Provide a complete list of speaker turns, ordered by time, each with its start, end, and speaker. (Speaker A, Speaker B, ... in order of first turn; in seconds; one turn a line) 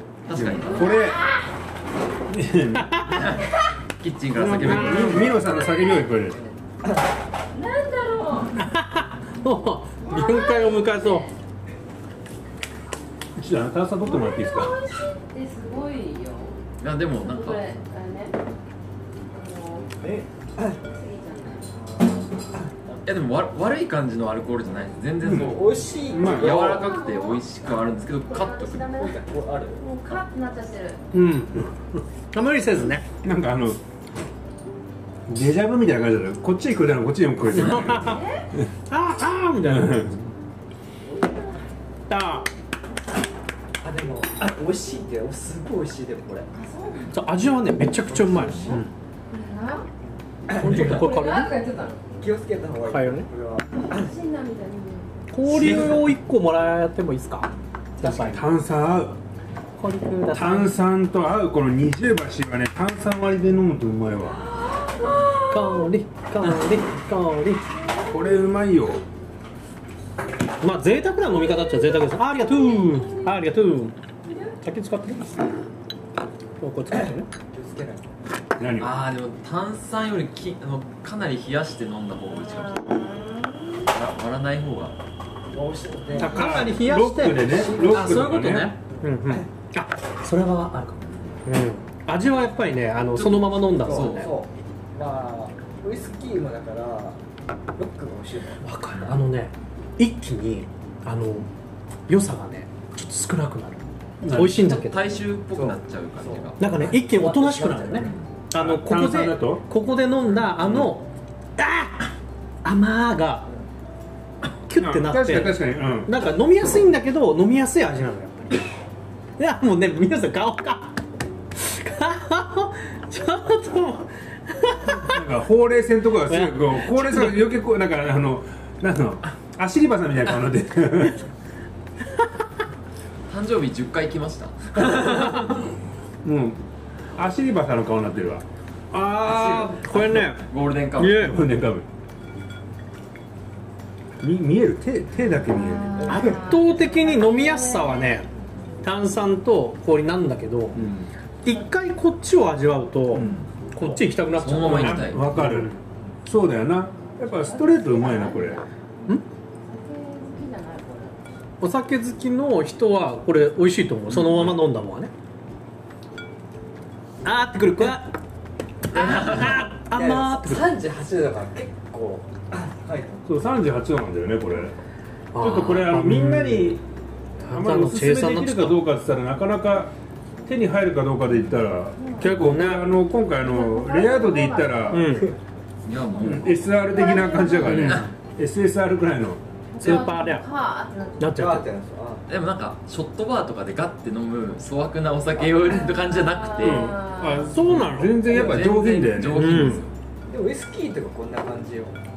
Speaker A: 0.2-1.0
Speaker B: 0.3-1.2
Speaker C: 0.7-1.4
Speaker B: 2.3-3.1
Speaker D: 2.7-3.3
Speaker A: 3.1-5.3
Speaker B: 4.3-6.4
Speaker D: 4.4-5.3
Speaker C: 7.5-8.6
Speaker D: 8.6-11.3
Speaker C: 10.0-11.3
Speaker B: 13.3-14.8
Speaker C: 14.0-18.4
Speaker A: 16.8-17.7
Speaker C: 19.3-19.9
Speaker E: 20.0-20.8
Speaker C: 20.8-21.8
Speaker E: 21.8-22.2
Speaker A: 23.0-29.0
Speaker B: 25.2-26.6
Speaker E: 25.3-26.9
Speaker C: 25.9-29.2
Speaker E: 29.0-29.8
Speaker C: 29.8-31.2
Speaker D: 31.1-31.7
Speaker D: 32.3-33.0
Speaker B: 33.2-33.8
Speaker B: 35.3-38.2
Speaker D: 37.6-38.1
Speaker C: 37.9-38.5
Speaker D: 38.9-40.1
Speaker B: 39.7-40.3
Speaker C: 41.0-41.6
Speaker D: 42.1-42.5
Speaker E: 43.8-46.5
Speaker C: 46.5-47.3
Speaker D: 47.1-48.9
Speaker E: 48.1-48.8
Speaker C: 49.3-49.9
Speaker E: 50.5-51.1
Speaker D: 50.5-51.5
Speaker C: 50.6-52.0
Speaker E: 52.2-54.1
Speaker D: 52.9-53.3
Speaker C: 53.8-55.1
Speaker D: 55.3-58.5
Speaker B: 55.5-55.9
Speaker B: 58.0-59.2
Speaker D: 59.8-60.8
Speaker B: 60.3-64.4
Speaker C: 64.3-65.8
Speaker D: 65.5-67.6
Speaker C: 68.0-68.3
Speaker B: 68.0-69.0
Speaker D: 70.6-74.0
Speaker C: 72.2-73.5
Speaker C: 74.3-74.5
Speaker D: 74.6-75.3
Speaker D: 76.6-77.3
Speaker E: 76.9-78.1
Speaker B: 78.6-79.0
Speaker A: 78.8-83.0
Speaker C: 82.3-83.8
Speaker A: 83.9-85.0
Speaker E: 85.5-88.3
Speaker D: 86.2-94.3
Speaker B: 86.2-88.7
Speaker A: 91.0-91.4
Speaker A: 93.1-94.3
Speaker E: 93.8-97.2
Speaker E: 97.7-98.7
Speaker D: 98.6-101.5
Speaker D: 102.1-105.0
Speaker B: 104.2-104.6
Speaker A: 104.3-106.6
Speaker E: 105.5-108.2
Speaker D: 106.6-111.0
Speaker A: 108.0-108.3
Speaker B: 108.5-109.6
Speaker B: 110.6-110.9
Speaker D: 111.6-112.0
Speaker D: 112.6-113.5
Speaker D: 114.7-118.6
Speaker B: 114.8-116.1
Speaker D: 119.4-121.0
Speaker D: 121.5-125.2
Speaker B: 125.0-131.2
Speaker D: 126.3-127.4
Speaker A: 133.3-135.5
Speaker D: 135.0-135.6
Speaker B: 136.2-136.6
Speaker B: 137.1-138.4
Speaker D: 138.9-140.4
Speaker B: 139.2-139.6
Speaker A: 139.3-141.3
Speaker D: 141.0-141.3
Speaker B: 141.0-141.9
Speaker B: 144.2-146.1
Speaker C: 145.3-148.3
Speaker E: 146.0-146.5
Speaker D: 146.1-148.3
Speaker D: 148.8-150.8
Speaker B: 150.7-151.0
Speaker A: 150.8-151.0
Speaker D: 151.4-155.8
Speaker B: 153.1-155.7
Speaker A: 153.1-153.5
Speaker A: 154.4-155.3
Speaker B: 156.2-158.6
Speaker C: 157.2-161.3
Speaker D: 161.6-165.1
Speaker A: 164.1-164.6
Speaker D: 167.2-168.1
Speaker A: 168.9-169.6
Speaker D: 168.9-170.7
Speaker E: 169.0-173.3
Speaker B: 173.2-174.7
Speaker D: 175.3-176.8
Speaker B: 175.3-176.8
Speaker D: 177.4-178.8
Speaker B: 177.5-179.9
Speaker B: 180.5-185.2
Speaker C: 182.0-182.3
Speaker D: 182.2-182.9
Speaker C: 183.1-185.2
Speaker D: 184.9-185.3
Speaker A: 185.8-186.7
Speaker B: 186.2-189.9
Speaker C: 186.2-187.9
Speaker D: 187.7-188.1
Speaker C: 189.7-191.4
Speaker D: 189.8-190.4
Speaker D: 191.2-191.7
Speaker E: 191.3-192.2
Speaker A: 192.3-197.0
Speaker E: 195.4-195.7
Speaker C: 195.8-197.6
Speaker B: 196.6-199.8
Speaker D: 196.6-198.2
Speaker A: 198.3-199.9
Speaker E: 198.3-198.7
Speaker D: 199.3-199.8
Speaker E: 200.3-202.0